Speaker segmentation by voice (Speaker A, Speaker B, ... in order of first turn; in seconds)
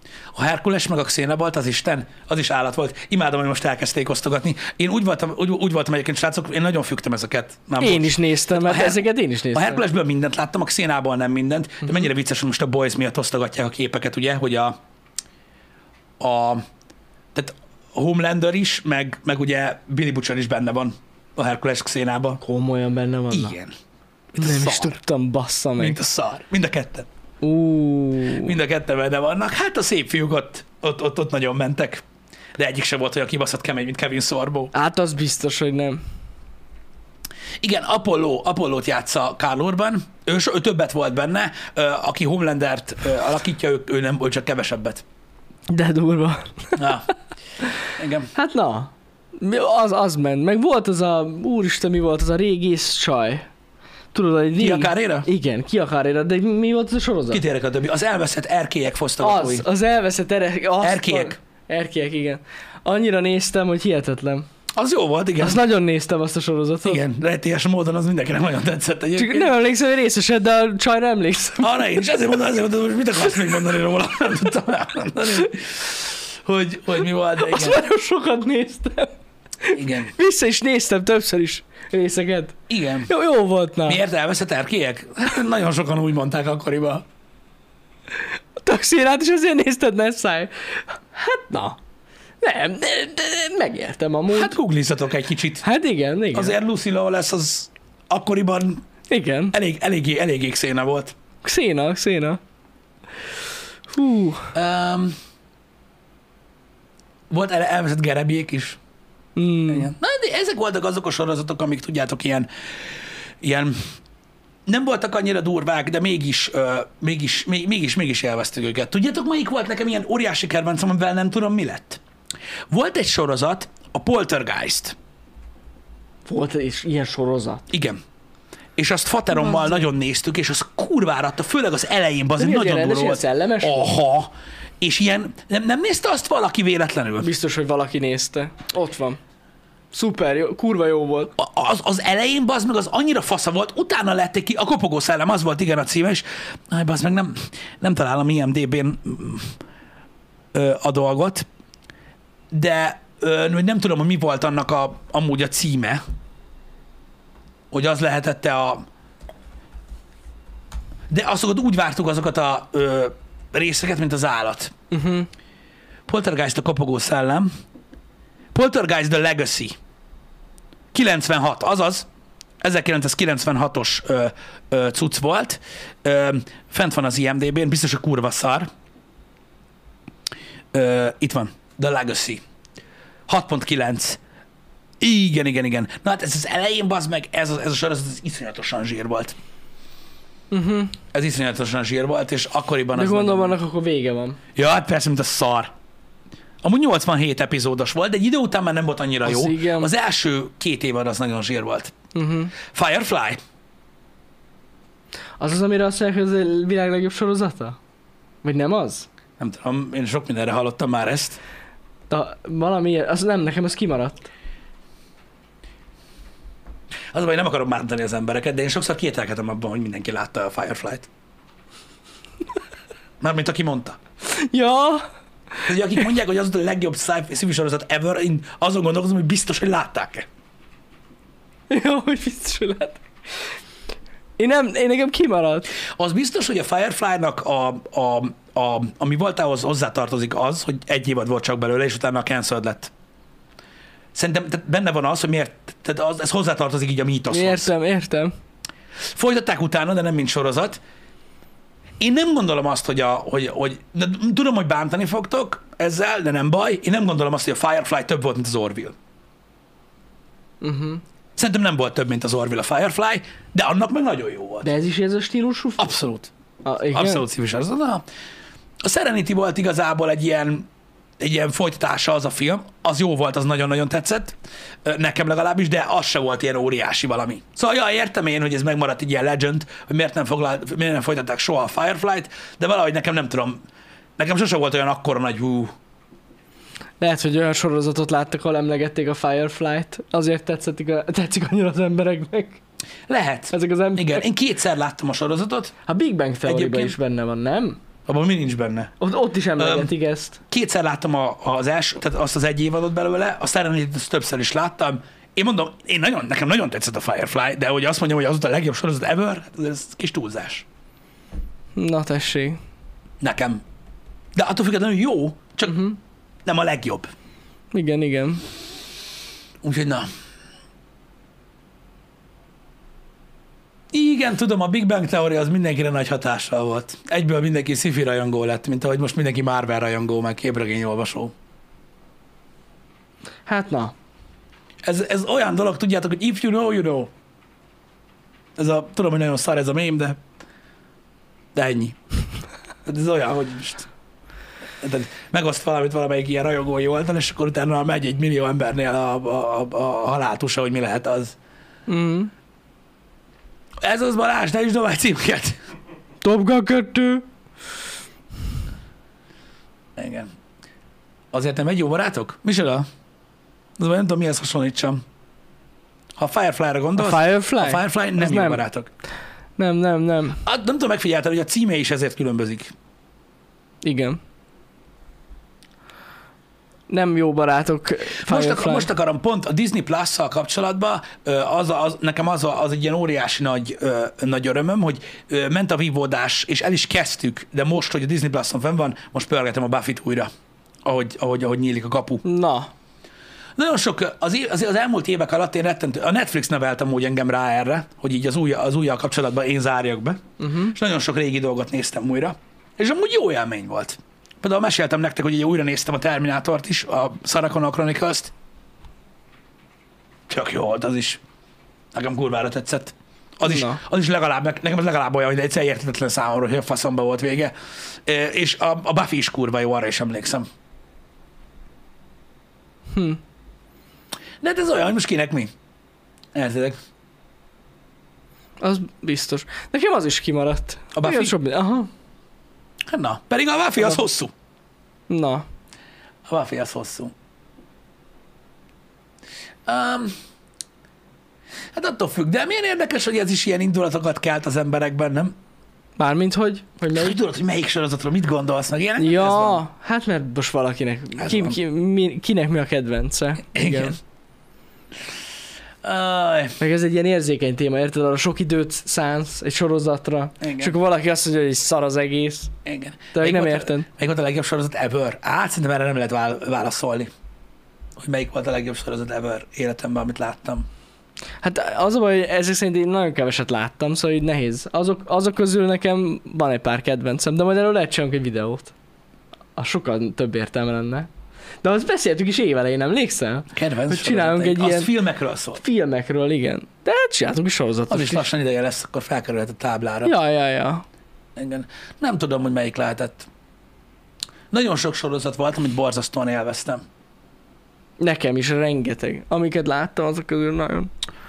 Speaker A: 0.3-14.8, 16.2-16.6, 17.3-22.4, 23.3-23.7, 24.3-24.9, 25.8-27.1, 28.3-32.0, 32.6-34.7, 37.6-45.0, 46.7-47.1, 47.8-48.3, 54.6-55.3, 57.3-59.6, 60.8-61.4, 64.8-65.6, 66.8-69.5, 71.6-77.8, 79.7-80.1, 82.7-83.1, 83.8-87.0, 94.3-95.6, 96.3-98.8, 99.5-101.1, 104.5-105.1, 107.3-108.8, 109.7-112.5, 113.4-113.8, 114.7-122.0, 122.7-124.9, 127.7-128.0, 128.8-137.3, 141.4-149.5, 150.5-151.4, 152.5-156.0, 157.7-158.8, 161.1-164.7, 166.1-167.5, 168.5-169.8, 170.9-172.1, 172.6-178.7, 180.7-182.4, 183.3-184.2, 185.0-189.4, 191.1-193.6, 194.6-195.7, 196.6-201.9, 202.7-203.4, 209.4-211.4, 217.1-221.1, 223.2-224.0, 225.6-230.2, 236.0-242.9, 244.1-247.7, 249.1-250.8, 252.0-258.9, 261.4-264.7, 265.8-266.3, 266.9-268.0, 268.8-270.7, 271.2-283.6, 284.2-285.7, 293.1-295.7, 296.4-296.9, 298.1-298.9, 299.6-299.9, 300.5-310.6, 313.2-313.6, 314.4-315.9, 316.4-317.1, 319.6-320.1, 323.9-331.3, 334.8-337.1, 338.6-340.2, 341.5-342.0, 342.9-343.9, 344.8-351.3, 353.8-355.6, 359.9-360.3, 361.3-362.9, 363.8-365.0, 366.2-368.9, 370.4-372.7, 378.1-390.3, 390.8-392.2, 393.6-408.3, 410.3-411.2, 411.9-417.5, 418.1-420.5, 424.4-425.5, 426.3-426.8, 430.9-431.3, 432.9-434.3, 436.3-437.1, 439.7-440.1, 441.7-445.3, 446.9-449.6, 451.2-451.6, 453.5-454.0, 455.8-456.6, 460.4-460.8, 462.6-467.1, 468.0-470.6, 483.5-485.6, 487.9-490.1, 491.4-493.3, 494.5-496.8
Speaker B: 7.8-9.8, 22.4-23.5, 24.4-26.0, 27.4-28.5, 34.7-36.0, 45.7-46.8, 48.3-53.5, 54.1-57.4, 59.2-64.5, 65.4-67.0, 69.2-72.0, 77.3-84.0, 88.6-91.8, 92.4-94.5, 95.6-96.6, 99.1-99.5, 101.4-102.4, 103.9-104.5, 109.3-109.9, 126.2-127.6, 129.3-129.8, 132.4-133.9, 137.2-139.2, 139.9-141.3, 164.9-165.3, 190.5-190.9, 192.9-194.4, 199.2-199.9, 202.1-202.5, 205.4-207.8, 208.4-209.1, 212.1-214.3, 224.2-225.1, 231.7-233.0, 234.4-235.7, 247.3-248.3, 260.6-261.0, 264.6-266.0, 266.6-267.2, 287.0-292.6, 293.5-294.3, 295.9-297.8, 299.0-300.4, 311.7-312.6, 315.7-316.0, 317.7-318.4, 333.4-333.9, 351.9-352.3, 356.2-357.2, 367.0-368.6, 369.6-370.4, 373.8-374.2, 376.9-378.9, 392.2-392.7, 400.4-400.7, 413.4-413.8, 422.9-423.2, 428.6-431.9, 435.1-435.4, 446.0-447.2, 449.0-454.0, 456.6-462.5, 463.1-463.9, 471.4-478.7, 479.6-481.1, 481.6-484.9, 485.6-488.3, 490.0-490.8, 498.0-500.9